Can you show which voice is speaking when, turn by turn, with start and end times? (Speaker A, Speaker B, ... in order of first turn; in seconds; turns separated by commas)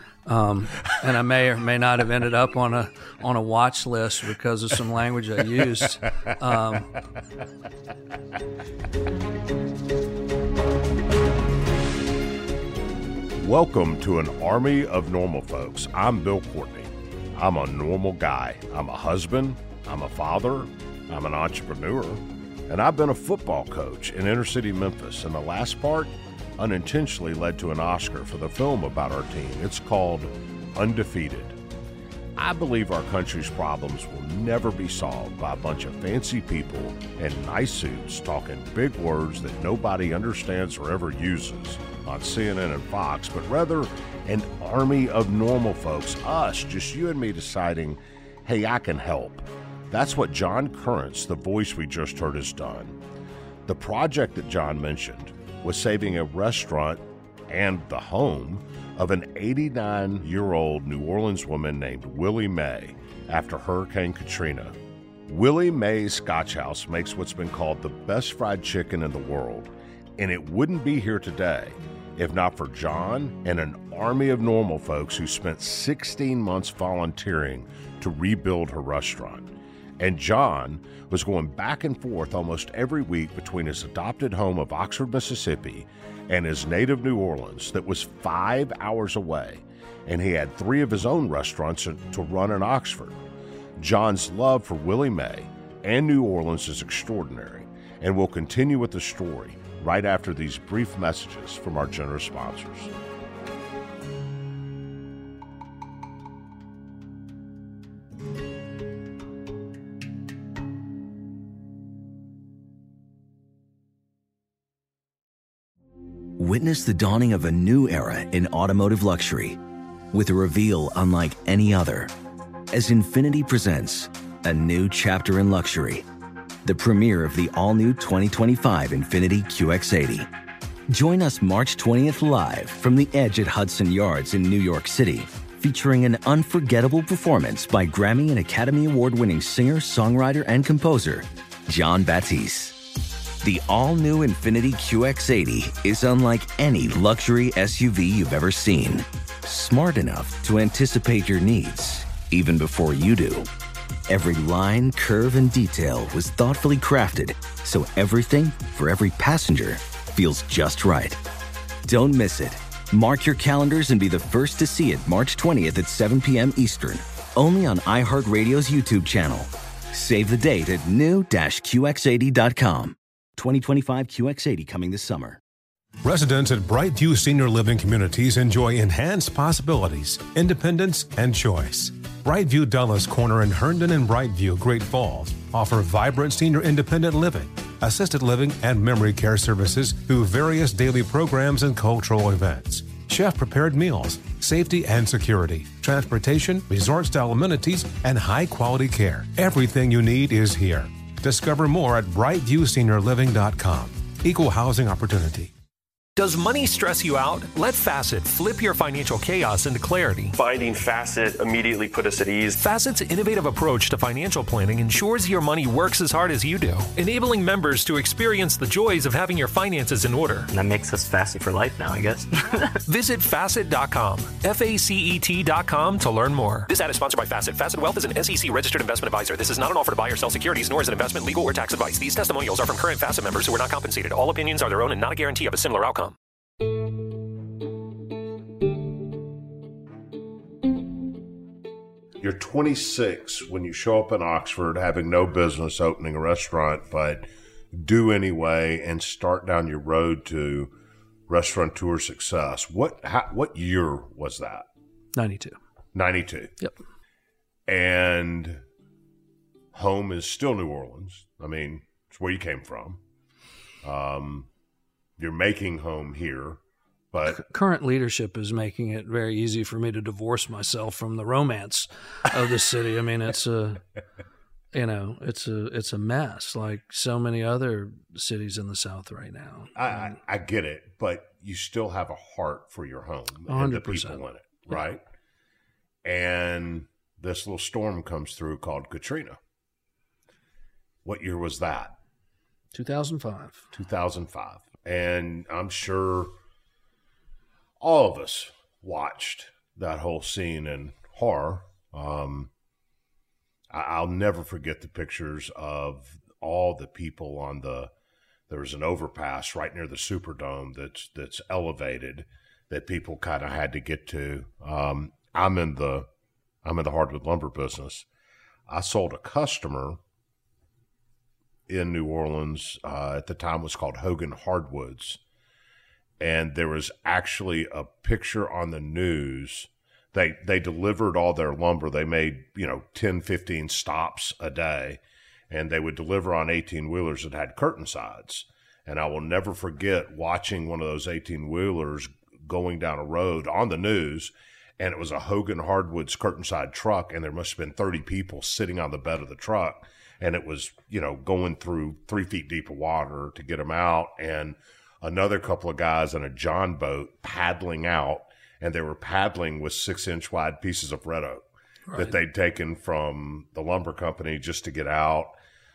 Speaker A: 0.2-7.0, Speaker B: 13.4-31.6, Speaker B: 32.4-53.0, Speaker B: 53.7-64.8, Speaker B: 65.3-93.2, Speaker B: 93.8-102.9, Speaker C: 116.4-119.6, Speaker C: 120.1-122.1, Speaker C: 122.7-126.0, Speaker C: 126.6-130.3, Speaker C: 130.9-142.8, Speaker C: 143.4-153.5, Speaker C: 154.1-161.2, Speaker C: 161.9-175.4, Speaker D: 176.0-205.5, Speaker E: 206.2-210.3, Speaker F: 210.3-212.6, Speaker E: 212.6-220.5, Speaker G: 220.5-222.8, Speaker E: 222.8-236.2, Speaker B: 242.2-250.7, Speaker B: 251.3-254.7, Speaker A: 255.2-255.6, Speaker B: 255.9-256.6, Speaker B: 257.7-258.6, Speaker B: 259.7-263.0, Speaker B: 263.8-264.5, Speaker B: 265.2-266.6, Speaker B: 267.1-267.4, Speaker A: 267.2-273.8, Speaker A: 274.7-280.1, Speaker B: 279.8-285.0, Speaker A: 283.5-284.9, Speaker B: 286.0-289.4, Speaker B: 291.0-291.9, Speaker A: 292.7-293.6, Speaker B: 293.7-296.3, Speaker B: 297.8-302.5, Speaker B: 303.7-307.9, Speaker B: 308.5-316.1, Speaker B: 316.6-318.1, Speaker B: 318.7-320.0, Speaker B: 321.7-325.2, Speaker B: 326.2-361.4, Speaker A: 361.9-362.2, Speaker B: 361.9-365.3